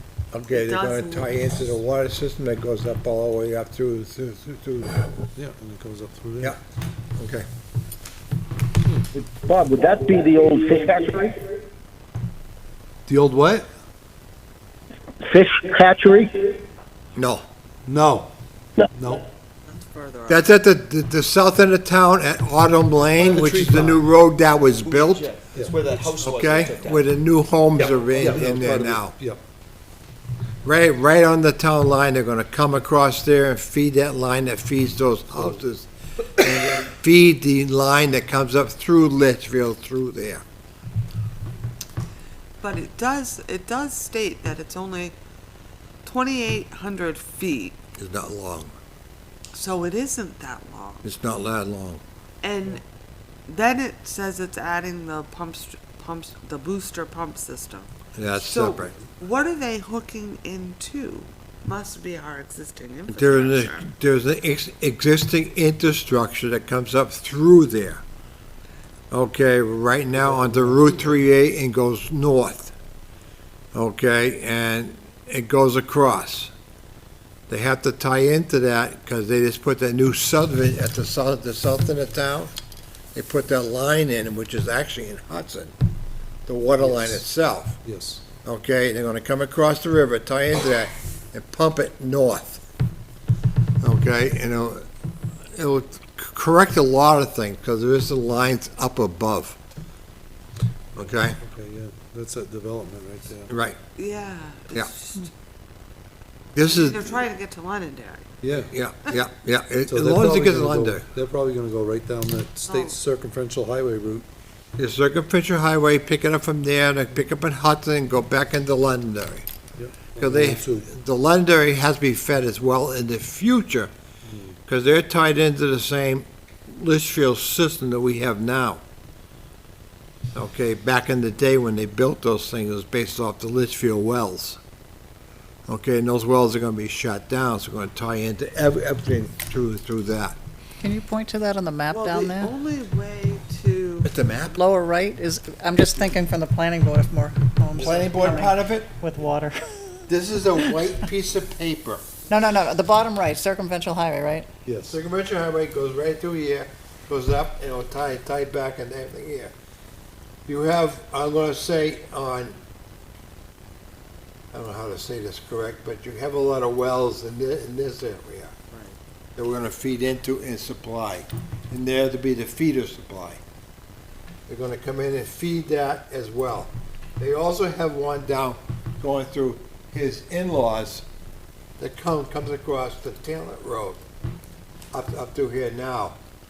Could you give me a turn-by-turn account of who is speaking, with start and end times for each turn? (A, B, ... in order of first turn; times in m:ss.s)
0:00.3-0:05.1 A
0:00.5-0:01.5 B
0:05.4-0:06.6 C
0:07.2-0:07.4 A
0:09.1-0:11.5 D
0:13.1-0:13.7 C
0:15.2-0:16.6 D
0:17.2-0:17.4 A
0:17.8-0:18.3 C
0:18.9-0:19.2 C
0:19.6-0:20.5 B
0:20.3-0:25.3 A
0:23.2-0:24.0 E
0:23.4-0:23.9 C
0:24.8-0:27.1 E
0:25.5-0:25.9 C
0:26.2-0:29.1 A
0:27.8-0:28.4 E
0:28.1-0:29.4 C
0:30.6-0:40.4 A
0:42.6-0:45.2 B
0:46.0-0:47.8 B
0:48.0-0:48.7 A
0:49.5-0:51.1 B
0:51.0-0:52.0 A
0:52.4-0:52.8 B
0:53.5-1:03.9 B
0:58.2-0:58.9 A
1:03.1-1:08.0 A
1:09.1-1:12.7 A
1:10.2-1:11.1 C
1:13.7-1:16.5 A
1:17.5-1:22.5 A
1:23.1-1:25.7 A
1:26.4-1:27.8 A
1:26.8-1:27.2 C
1:27.8-1:28.2 C
1:28.4-1:32.6 A
1:33.8-1:34.8 A
1:35.5-1:39.6 A
1:41.0-1:41.4 A
1:41.0-1:43.5 C
1:43.5-1:43.8 A
1:44.0-1:45.3 B
1:46.5-1:47.2 A
1:46.6-1:48.3 B
1:48.4-1:48.7 C
1:48.7-1:51.0 A
1:49.8-1:54.3 C
1:52.6-1:53.0 B
1:54.8-1:59.4 A
1:59.8-2:00.9 C
2:00.2-2:03.9 A
2:04.2-2:04.6 C
2:04.7-2:08.8 A
2:10.3-2:14.6 A
2:15.7-2:20.4 A
2:20.8-2:22.5 F
2:21.9-2:24.1 B
2:24.0-2:24.6 A
2:24.5-2:30.1 F
2:27.7-2:28.9 A
2:30.1-2:32.0 A
2:32.3-2:34.5 F
2:34.6-2:35.0 C
2:34.9-2:39.5 A
2:40.5-2:42.6 A
2:44.5-2:48.5 A
2:48.7-2:49.0 B
2:49.4-2:53.4 A
2:54.5-3:01.0 A
3:01.8-3:04.0 A
3:04.9-3:06.2 A